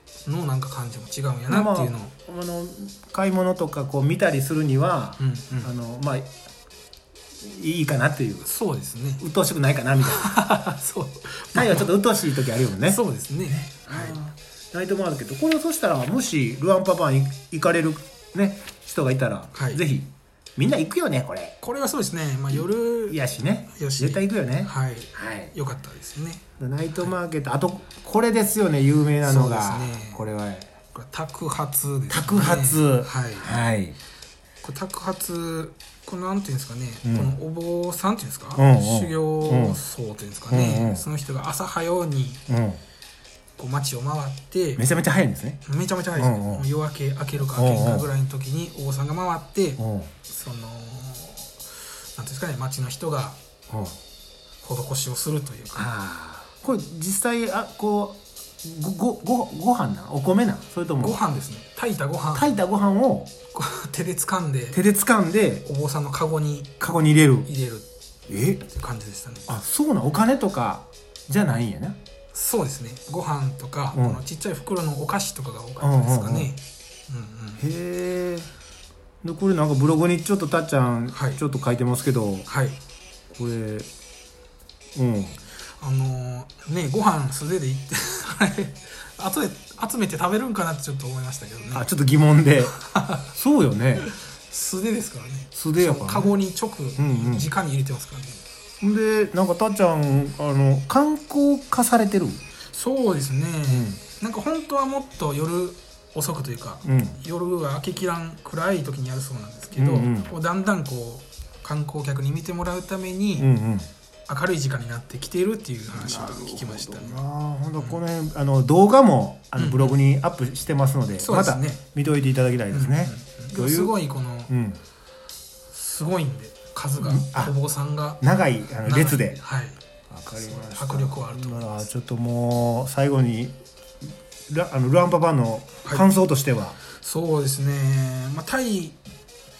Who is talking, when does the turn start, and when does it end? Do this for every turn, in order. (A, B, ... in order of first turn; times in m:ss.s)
0:00.2-0:02.1 A
0:01.5-0:06.3 B
0:05.2-0:05.7 A
0:07.4-0:08.5 B
0:08.4-0:09.2 A
0:09.2-0:10.3 B
0:10.0-0:11.9 A
0:11.5-0:21.6 B
0:12.8-0:14.2 A
0:19.5-0:19.8 A
0:21.6-0:23.2 A
0:22.5-0:25.5 B
0:23.7-0:26.4 A
0:26.6-0:30.7 B
0:29.2-0:30.2 A
0:30.9-0:33.5 A
0:32.1-0:34.0 B
0:34.6-0:42.4 A
0:37.0-0:37.3 B
0:38.6-0:39.8 B
0:40.5-0:41.1 B
0:42.5-0:42.8 B
0:43.6-0:44.8 A
0:44.8-0:45.6 B
0:45.6-0:51.6 A
0:46.2-0:46.6 B
0:47.5-0:48.1 B
0:49.8-0:50.1 B
0:52.1-0:53.4 A
0:53.7-0:54.0 B
0:54.6-0:55.9 A
0:55.7-1:01.2 B
1:01.0-1:02.6 A
1:02.3-1:03.3 B
1:03.5-1:04.8 A
1:04.7-1:05.6 B
1:05.6-1:06.8 A
1:06.8-1:07.5 B
1:07.4-1:07.9 A
1:08.3-1:08.6 B
1:08.7-1:09.5 A
1:09.5-1:12.0 B
1:12.3-1:17.6 A
1:13.9-1:14.2 B
1:15.8-1:16.5 B
1:17.6-1:18.5 B
1:19.2-1:22.5 B
1:21.1-1:21.4 A
1:22.5-1:22.8 A
1:23.3-1:23.9 B
1:25.0-1:25.4 B
1:25.8-1:31.9 A
1:31.7-1:34.1 B
1:32.7-1:33.3 A
1:34.0-1:38.4 A
1:35.5-1:36.4 B
1:37.0-1:37.5 B
1:38.8-1:42.4 B
1:42.7-1:53.5 A
1:43.7-1:44.0 B
1:46.8-1:47.2 B
1:49.7-1:50.3 B
1:53.4-1:53.9 B
1:54.3-1:57.2 A
1:55.9-2:04.0 B
1:59.6-2:00.0 A
2:01.2-2:01.8 A
2:02.7-2:04.5 A
2:04.5-2:04.8 B
2:05.7-2:08.2 A
2:07.0-2:07.5 B
2:08.2-2:09.4 B
2:08.8-2:09.8 A
2:10.1-2:13.6 B
2:10.3-2:11.9 A
2:14.5-2:16.8 B
2:16.9-2:19.0 A